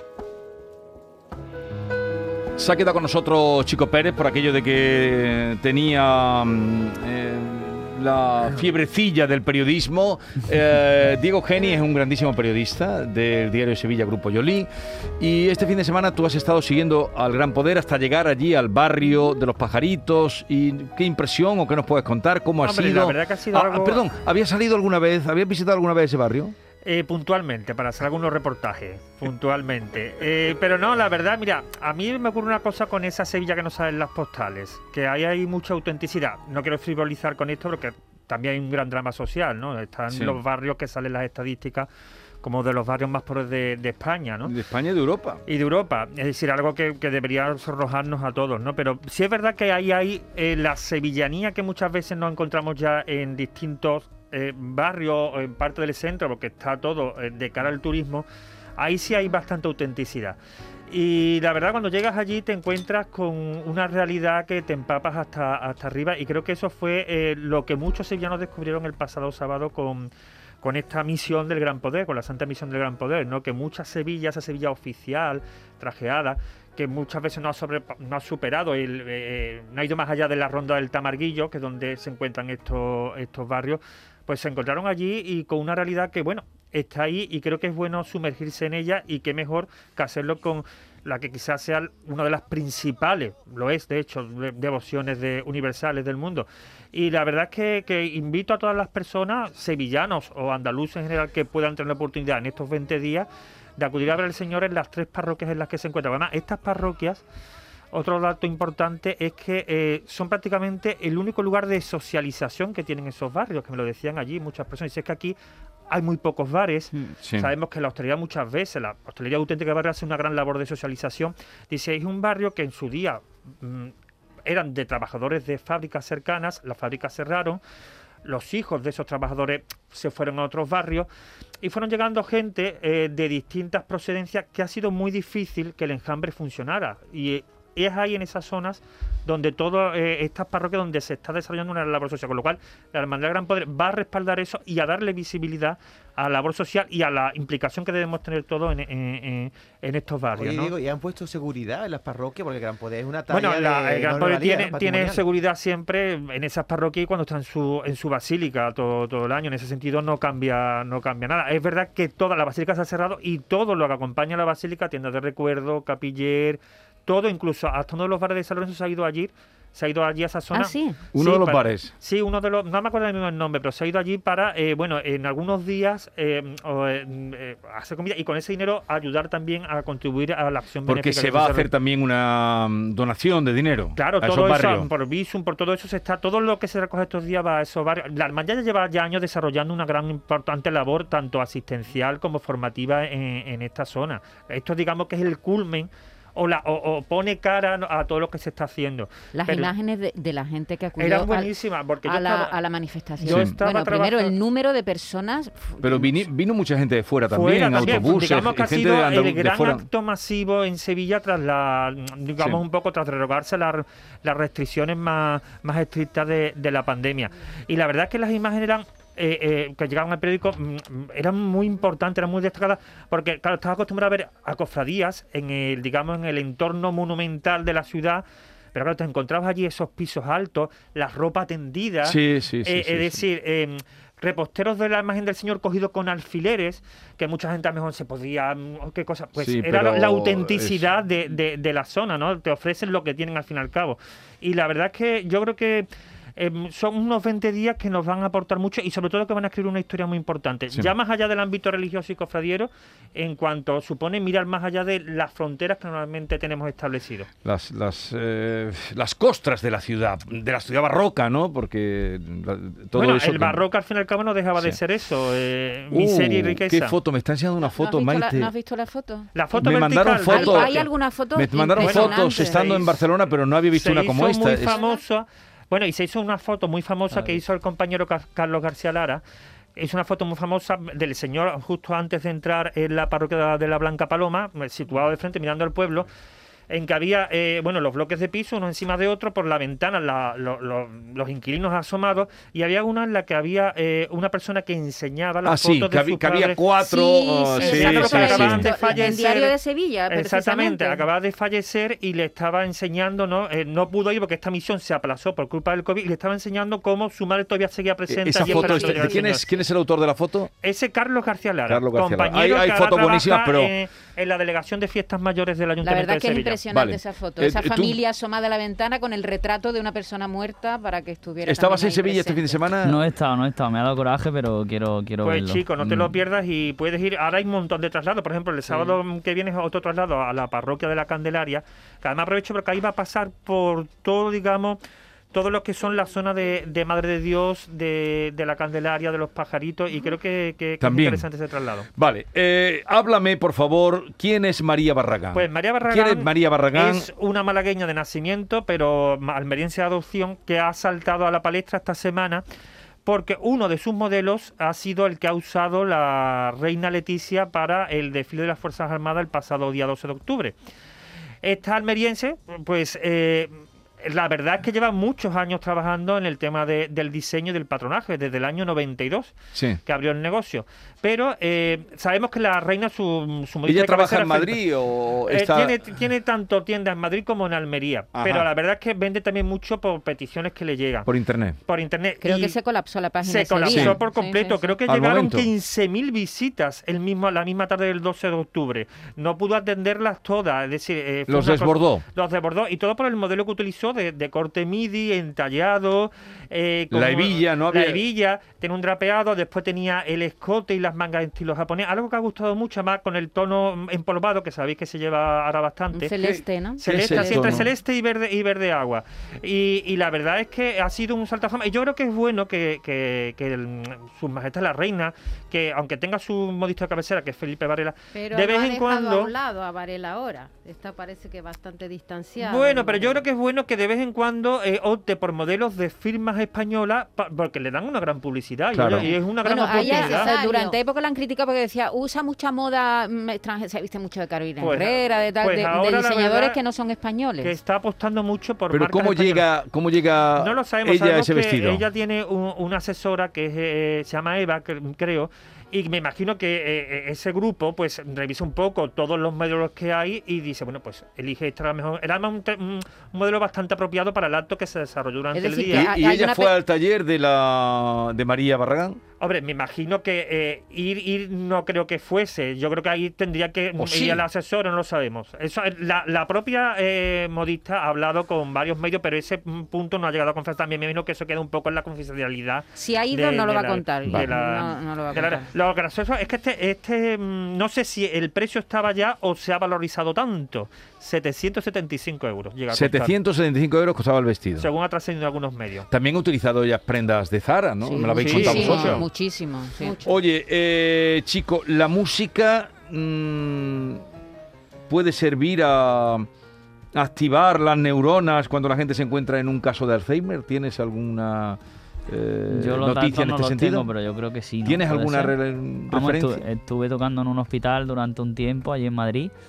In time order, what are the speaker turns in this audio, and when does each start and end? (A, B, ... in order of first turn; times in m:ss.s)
0:02.6-0:26.5 A
0:22.6-0:24.0 B
0:26.8-0:41.9 B
0:40.1-0:40.4 A
0:42.4-0:44.6 B
0:44.4-0:45.4 A
0:45.5-1:00.4 B
1:00.9-1:10.1 B
1:10.6-1:47.2 B
1:47.9-1:55.4 B
1:55.9-2:03.9 B
2:04.4-2:07.6 B
2:08.2-2:11.1 B
2:11.6-2:30.7 B
2:30.3-2:35.2 C
2:33.3-3:01.7 B
2:50.5-2:51.0 D
2:51.1-2:51.9 A
3:00.9-3:04.9 A
3:03.9-3:19.7 B
3:19.3-3:26.2 D
3:21.0-3:22.6 B
3:23.2-3:24.3 B
3:23.2-3:23.6 A
3:25.8-3:29.8 A
3:27.3-4:17.3 B
3:52.0-3:53.2 A
3:59.4-4:00.8 A
4:17.4-4:23.6 A
4:22.9-4:27.0 B
4:25.9-4:28.5 A
4:27.7-4:29.6 D
4:29.3-4:30.9 B
4:29.6-4:30.8 A
4:30.3-4:32.8 D
4:31.3-4:34.8 A
4:31.8-4:33.0 B
4:33.7-4:39.2 B
4:34.6-4:35.0 D
4:37.1-4:37.4 E
4:39.8-4:46.1 B
4:46.7-4:56.6 B
4:55.4-4:58.6 A
4:56.8-5:01.0 D
4:57.6-4:59.6 B
5:00.1-5:09.5 B
5:08.1-5:10.5 A
5:08.4-5:09.2 D
5:10.6-5:16.6 B
5:11.7-5:13.7 A
5:15.8-5:22.7 D
5:16.7-5:18.0 A
5:21.4-5:23.0 A
5:22.8-5:26.0 E
5:25.2-5:34.8 B
5:35.3-5:41.9 B
5:40.8-5:41.3 A
5:41.9-5:47.0 A
5:45.3-5:52.4 B
5:53.0-6:00.5 B
6:01.4-6:14.6 B
6:13.6-6:15.8 A
6:15.3-6:22.6 B
6:18.2-6:18.4 A
6:21.1-6:21.6 A
6:22.2-6:24.7 D
6:23.2-6:46.1 B
6:23.6-6:24.0 A
6:24.9-6:25.5 A
6:31.3-6:32.0 A
6:36.9-6:38.0 A
6:45.9-6:47.7 D
6:46.2-6:47.7 A
6:46.8-6:59.3 B
6:58.2-7:03.2 F
7:02.4-7:10.3 B
7:08.7-7:09.1 A
7:09.2-7:17.5 D
7:09.9-7:10.7 F
7:14.6-7:16.6 B
7:17.4-7:19.5 B
7:18.7-7:21.8 A
7:20.4-7:35.9 B
7:35.3-7:36.5 D
7:35.7-7:39.0 A
7:39.2-8:03.2 B
7:43.8-7:44.2 A
7:52.7-7:55.5 D
8:02.7-8:04.7 A
8:04.6-8:05.9 B
8:05.9-8:09.0 A
8:07.8-8:10.0 D
8:08.2-8:09.0 B
8:10.0-8:14.0 A
8:14.9-8:16.3 A
8:16.9-8:23.9 A
8:22.5-8:25.4 E
8:24.6-8:26.4 A
8:25.9-8:29.3 E